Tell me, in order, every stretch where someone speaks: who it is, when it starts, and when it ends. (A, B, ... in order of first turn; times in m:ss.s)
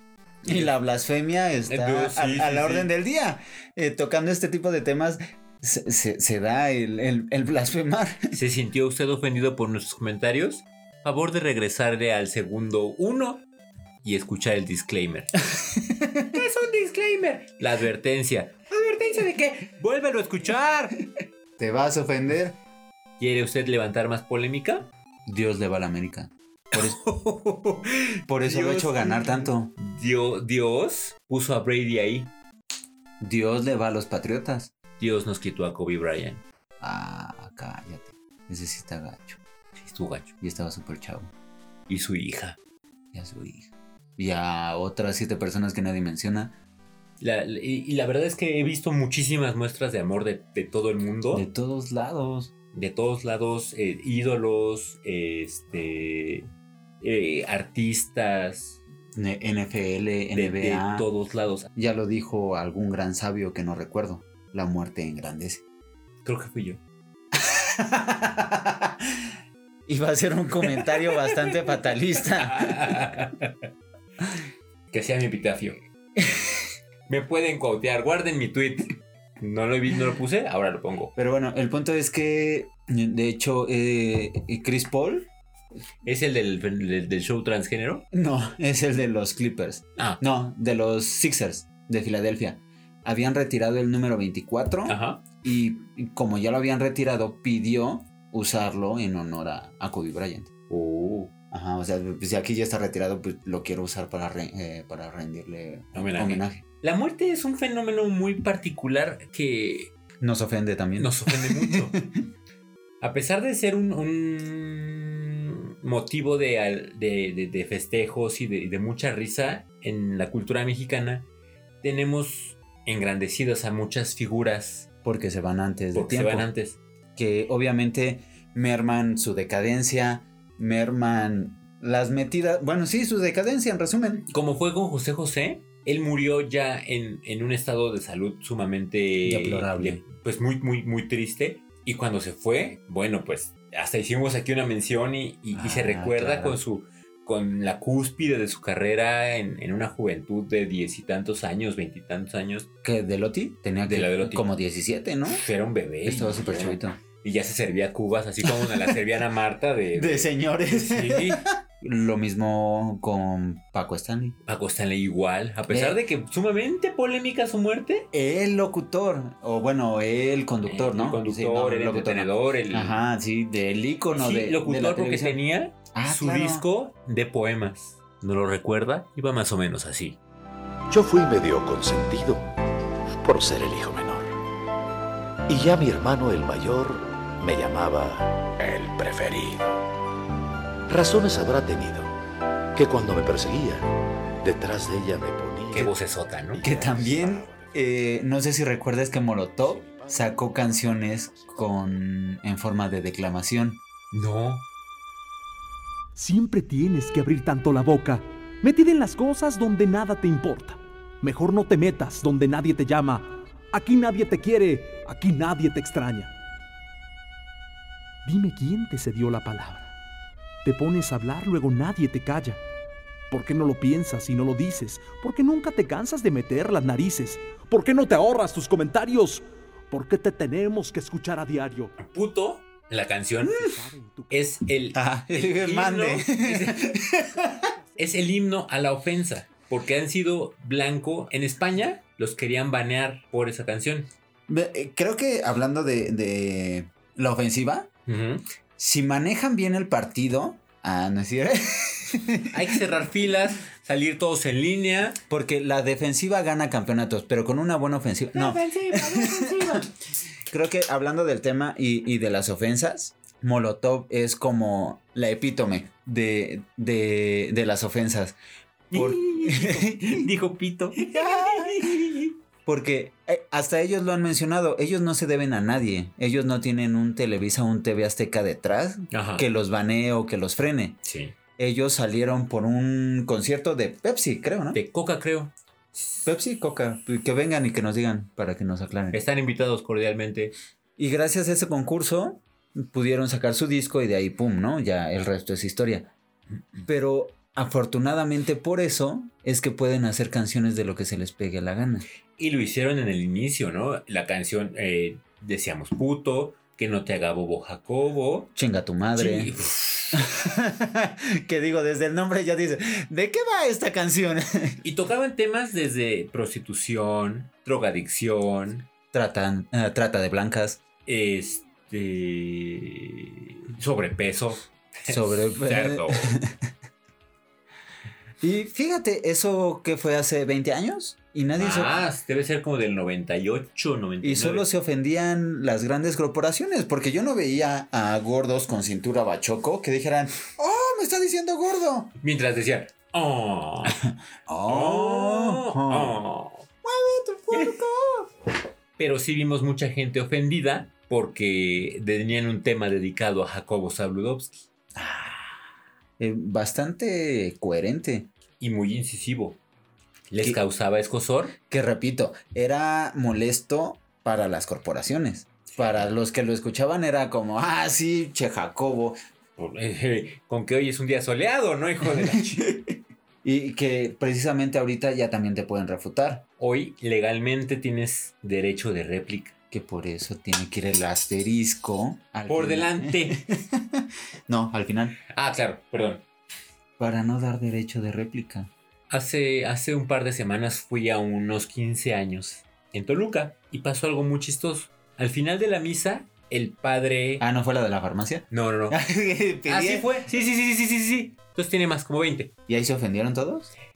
0:00.4-0:08.4 A
0:01.7-0:02.9 B
0:08.3-0:13.4 B
0:14.0-0:15.3 B
0:15.6-0:16.3 A
0:16.3-0:21.0 B
0:21.6-0:22.6 A
0:23.2-0:24.9 B
0:25.2-0:27.0 A
0:26.7-0:32.3 B
0:28.3-0:29.7 A
0:33.2-0:34.7 A
0:35.0-0:36.4 B
0:36.8-0:39.4 A
0:39.8-0:40.3 B
0:40.4-0:41.3 A
0:41.9-0:42.6 B
0:43.1-0:46.5 A
0:47.2-0:51.4 B
0:51.3-0:52.5 A
0:52.7-0:56.4 B
0:57.0-0:58.8 B
0:59.1-1:01.1 A
1:00.3-1:01.7 B
1:01.7-1:05.6 A
1:06.2-1:06.8 B
1:07.3-1:09.3 A
1:09.9-1:13.0 A
1:10.9-1:13.6 B
1:14.9-1:15.8 B
1:16.2-1:16.6 A
1:17.1-1:21.1 B
1:21.2-1:25.3 A
1:26.0-1:28.0 B
1:28.1-1:40.5 A
1:34.8-1:35.2 B
1:40.7-1:41.3 B
1:41.5-1:46.6 A
1:45.9-1:49.9 B
1:50.2-1:52.0 A
1:51.0-1:52.0 B
1:53.0-2:01.3 B
2:01.8-2:04.9 B
2:05.0-2:06.5 A
2:05.9-2:06.8 B
2:07.2-2:14.3 A
2:14.3-2:32.7 B
2:19.2-2:20.0 A
2:25.5-2:26.6 A
2:32.8-2:35.4 A
2:33.8-2:34.5 B
2:35.3-2:41.4 B
2:36.0-2:37.0 A
2:38.4-2:38.9 A
2:39.9-2:44.4 A
2:44.4-2:48.1 B
2:45.7-2:46.0 A
2:48.1-2:55.4 A
2:50.6-2:53.0 B
2:54.1-3:00.2 B
2:55.9-2:56.6 A
3:00.9-3:02.5 C
3:03.2-3:04.4 C
3:05.5-3:09.8 C
3:10.9-3:12.2 C
3:12.7-3:17.8 C
3:15.7-3:16.6 B
3:16.6-3:23.8 A
3:19.6-3:21.6 C
3:24.1-3:24.7 B
3:26.2-3:36.3 D
3:38.2-3:39.9 D
3:40.6-3:42.6 D
3:43.3-3:52.0 D
3:52.0-3:53.6 B
3:53.5-3:54.4 D
3:54.3-3:57.0 B
3:54.9-3:57.7 A
3:58.0-4:04.1 B
4:04.5-4:07.9 A
4:08.0-4:08.4 B
4:08.8-4:12.8 A
4:12.5-4:15.2 B
4:15.3-4:19.8 A
4:18.3-4:19.9 B
4:20.5-4:28.4 A
4:28.9-4:32.3 B
4:28.9-4:30.3 A
4:31.0-4:41.0 A
4:39.1-4:39.5 B
4:41.0-4:41.3 B
4:41.6-4:44.8 A
4:44.7-4:46.2 B
4:46.2-4:49.2 A
4:49.1-4:50.5 B
4:51.0-4:56.1 A
4:56.8-5:02.0 A
5:02.4-5:08.5 B
5:08.6-5:09.5 A
5:09.2-5:10.3 B
5:10.1-5:14.8 A
5:14.8-5:18.9 B
5:19.1-5:20.8 A
5:21.0-5:26.4 B
5:25.1-5:26.6 A
5:28.4-5:32.0 A
5:31.6-5:34.7 B
5:34.2-5:42.1 A
5:42.2-5:44.0 B
5:44.4-5:46.2 A
5:44.6-5:46.7 B
5:46.8-5:48.3 A
5:47.5-5:47.8 B
5:49.0-5:54.7 B
5:55.0-5:55.6 A
5:56.2-5:58.3 A
5:58.6-5:59.6 B
6:00.3-6:01.6 B
6:01.6-6:09.2 A
6:05.7-6:06.1 B
6:09.6-6:12.7 B
6:12.0-6:16.4 A
6:16.6-6:19.5 B
6:19.7-6:25.2 A
6:22.5-6:23.4 B
6:25.3-6:26.2 B
6:27.0-6:28.7 A
6:29.1-6:37.4 B
6:37.4-6:40.1 A
6:38.5-6:39.0 B
6:39.6-6:42.5 B
6:42.7-6:43.7 A